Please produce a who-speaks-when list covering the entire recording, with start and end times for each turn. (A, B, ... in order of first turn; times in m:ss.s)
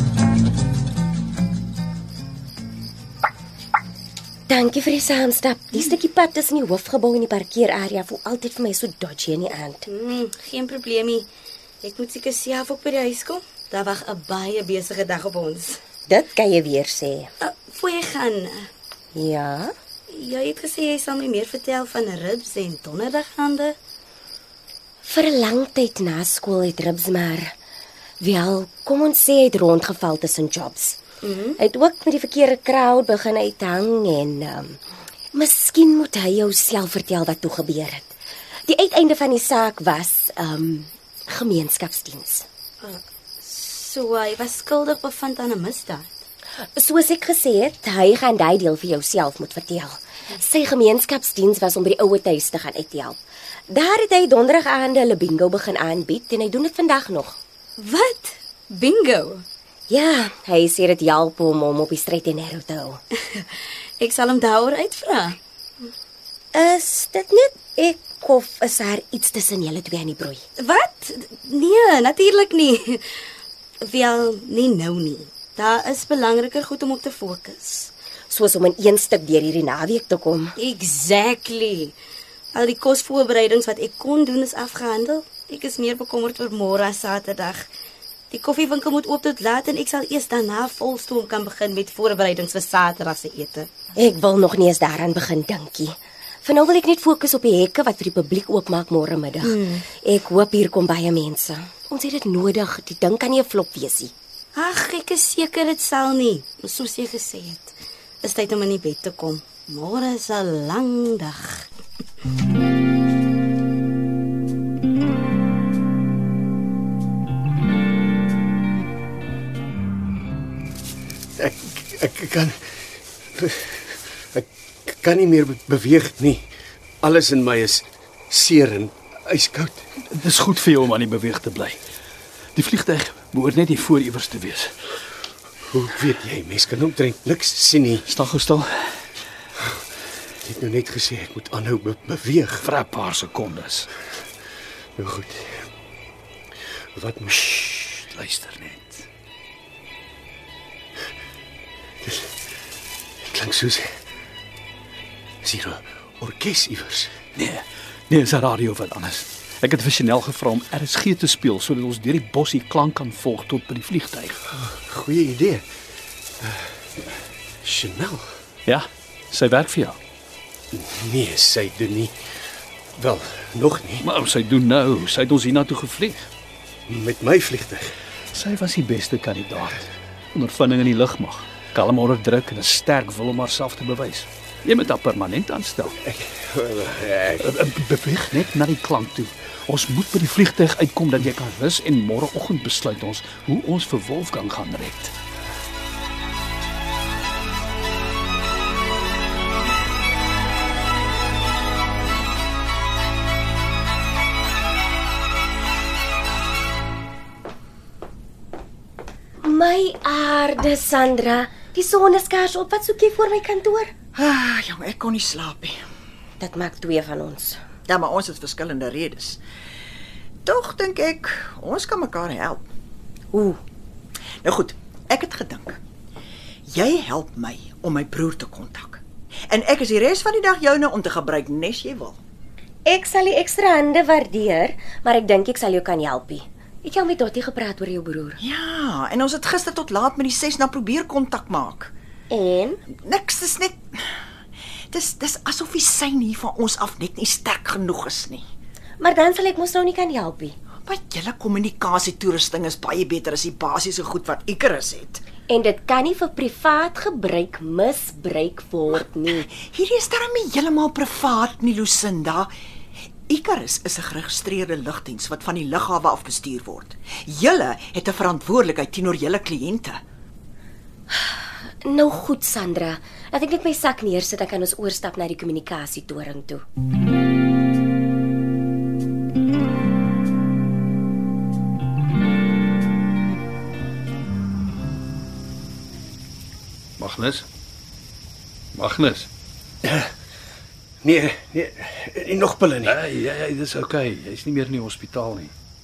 0:04.5-0:09.8 A
0:09.9-0:11.3 B
0:11.8-0:15.8 B
0:16.1-0:17.3 A
0:17.4-0:18.7 B
0:19.1-0:19.7 A
0:20.1-0:23.8 B
0:25.0-0:27.5 A
0:28.2-0:31.0 A
0:31.2-0:31.6 B
0:31.6-0:34.8 A
0:35.3-0:38.1 A
0:38.7-0:42.4 A
0:42.8-0:46.2 B
0:46.7-0:57.4 A
0:57.8-0:59.4 B
0:59.9-1:03.0 A
1:04.0-1:05.4 B
1:06.5-1:10.4 A
1:10.6-1:13.1 B
1:13.8-1:17.9 B
1:18.3-1:20.5 A
1:20.6-1:22.0 B
1:22.5-1:27.7 B
1:28.3-1:33.7 B
1:34.0-1:44.1 A
1:39.4-1:39.8 B
1:44.5-1:51.7 B
2:01.4-2:02.8 C
2:03.4-2:06.5 C
2:07.0-2:09.8 C
2:10.1-2:11.8 D
2:12.5-2:14.8 D
2:15.7-2:18.1 C
2:18.0-2:19.0 D
2:20.4-2:22.7 C
2:22.6-2:23.9 D
2:25.0-2:25.7 C
2:26.9-2:27.5 C
2:27.4-2:29.1 D
2:33.2-2:33.9 C
2:35.4-2:37.1 C
2:37.4-2:44.4 D
2:44.5-2:45.6 C
2:46.4-2:46.7 C
2:47.6-2:48.3 C
2:48.6-2:50.0 D
2:50.7-2:52.1 C
2:53.0-2:54.1 C
2:54.0-2:56.2 D
2:56.9-2:57.9 C
2:58.3-3:06.0 D
3:06.0-3:07.5 C
3:07.4-3:15.1 D
3:29.4-3:33.9 A
3:34.2-3:35.8 E
3:36.4-3:37.6 A
3:37.9-3:39.4 E
3:40.4-3:42.6 E
3:43.3-3:43.6 A
3:44.4-3:45.8 E
3:46.7-3:52.2 E
3:52.8-3:58.4 A
3:58.4-4:01.9 E
4:02.3-4:02.8 A
4:03.0-4:04.0 E
4:04.9-4:08.4 E
4:09.0-4:10.6 A
4:10.8-4:15.2 E
4:15.5-4:19.5 A
4:19.4-4:22.5 E
4:23.3-4:30.0 E
4:31.1-4:36.6 A
4:47.0-4:47.4 D
4:48.7-4:49.3 D
4:49.8-4:50.1 C
4:51.0-4:53.0 C
4:52.8-4:55.5 D